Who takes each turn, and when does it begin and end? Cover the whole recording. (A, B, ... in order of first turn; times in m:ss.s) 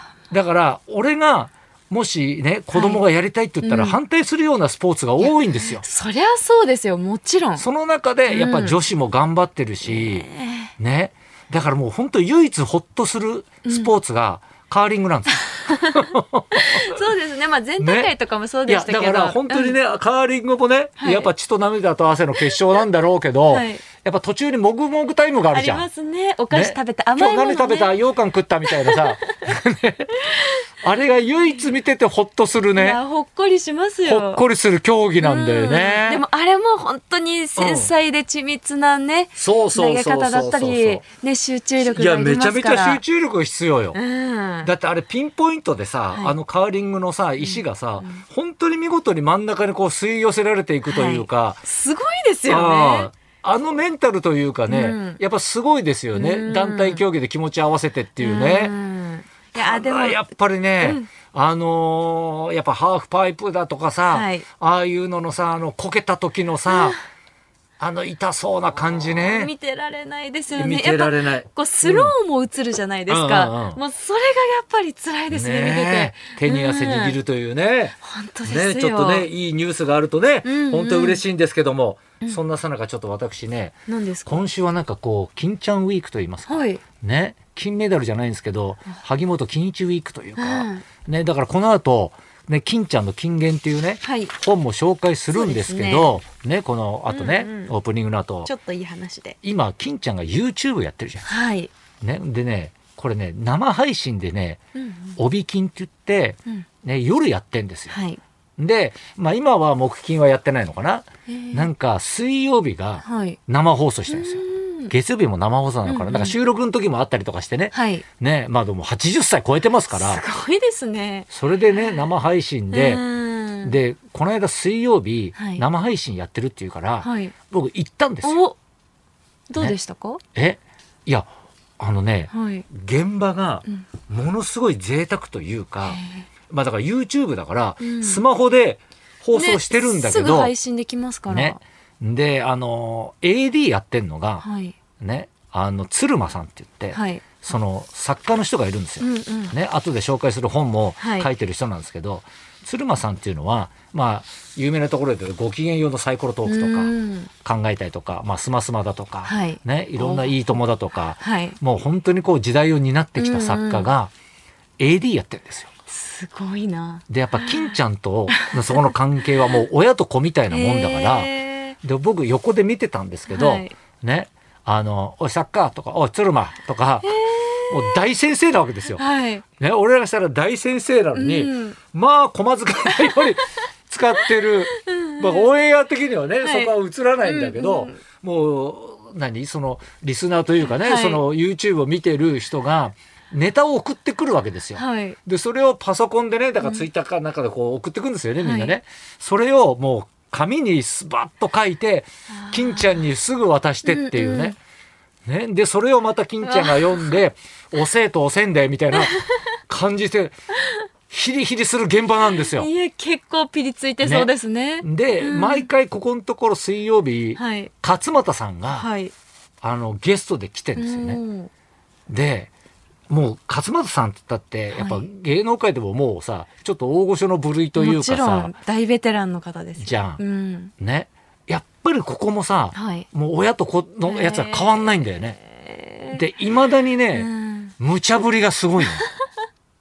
0:00.3-0:05.8 A
0:02.7-0:03.0 B
0:03.6-0:04.0 B
0:05.2-0:07.6 B
0:07.6-0:10.3 A
0:08.3-0:08.8 B
0:09.8-0:10.7 B
0:10.8-0:17.0 A
0:13.6-0:13.9 B
0:16.5-0:19.8 B
0:17.8-0:18.1 A
0:18.7-0:25.9 A
0:21.0-0:21.3 B
0:23.5-0:23.8 B
0:25.5-0:27.9 B
0:26.5-0:30.3 A
0:28.6-0:29.1 B
0:30.8-0:33.0 A
0:32.8-0:34.4 B
0:34.0-0:36.2 A
0:35.2-0:43.0 B
0:37.6-0:37.9 A
0:39.4-0:41.0 A
0:41.8-0:44.0 A
0:43.9-0:44.7 B
0:44.6-0:51.6 A
0:47.4-0:48.2 B
0:50.9-0:53.1 B
0:52.5-0:58.7 A
0:54.7-0:55.2 B
0:56.1-0:57.0 B
0:58.2-1:00.2 B
0:59.6-1:07.0 A
1:00.8-1:01.1 B
1:04.1-1:04.4 B
1:06.7-1:07.0 B
1:07.8-1:09.5 A
1:09.1-1:17.2 B
1:10.6-1:12.1 A
1:13.1-1:13.8 A
1:15.3-1:38.5 A
1:18.0-1:19.3 B
1:20.4-1:21.2 B
1:23.9-1:24.4 B
1:26.5-1:26.8 B
1:30.4-1:30.8 B
1:34.0-1:34.4 B
1:35.3-1:36.2 B
1:37.1-1:37.7 B
1:38.4-1:39.4 B
1:39.4-1:41.3 A
1:41.2-1:41.7 B
1:42.0-1:44.6 A
1:44.8-1:45.2 B
1:45.2-1:47.9 A
1:47.9-1:48.2 B
1:48.6-2:00.2 A
1:51.3-1:51.7 B
1:53.0-1:53.4 B
1:54.1-1:54.9 B
1:55.8-1:56.4 B
1:57.7-1:58.0 B
1:59.9-2:02.0 B
2:01.3-2:03.0 A
2:02.7-2:03.8 B
2:03.6-2:08.4 A
2:05.4-2:05.6 B
2:07.0-2:07.3 B
2:08.2-2:08.6 B
2:09.5-2:10.2 B
2:10.4-2:11.3 A
2:11.8-2:20.5 A
2:12.3-2:12.7 B
2:15.8-2:16.3 B
2:17.8-2:18.2 B
2:19.3-2:21.6 B
2:21.3-2:24.4 A
2:24.4-2:24.8 B
2:25.0-2:36.9 A
2:26.9-2:27.5 B
2:29.0-2:29.5 B
2:31.0-2:31.3 B
2:36.5-2:37.3 B
2:37.4-2:44.1 A
2:39.3-2:40.4 B
2:41.2-2:41.6 B
2:43.2-2:43.9 B
2:44.8-2:45.7 A
2:45.9-2:47.8 B
2:47.1-2:59.0 A
2:48.3-2:48.9 B
2:50.5-2:51.8 B
2:53.3-2:53.7 B
2:57.0-2:58.0 B
2:58.9-2:59.4 B
2:59.6-3:24.6 A
3:01.1-3:01.8 B
3:04.2-3:05.5 B
3:06.4-3:08.0 B
3:10.7-3:11.2 B
3:14.8-3:15.2 B
3:16.6-3:16.8 B
3:18.4-3:18.8 B
3:22.3-3:23.0 B
3:23.8-3:24.6 B
3:25.3-3:30.3 A
3:26.4-3:27.2 B
3:28.9-3:29.4 B
3:31.1-3:32.7 A
3:32.4-3:35.7 B
3:34.0-3:38.9 A
3:37.4-3:37.7 B
3:38.7-3:39.1 B
3:39.6-3:41.2 A
3:40.8-3:41.5 B
3:42.1-3:42.5 A
3:43.1-3:48.5 A
3:44.7-3:45.0 B
3:47.8-3:50.7 B
3:49.8-3:50.2 A
3:50.8-3:55.4 A
3:52.7-3:53.1 B
3:54.0-3:56.2 B
3:56.1-3:59.1 A
3:57.1-3:57.7 B
3:58.8-3:59.1 B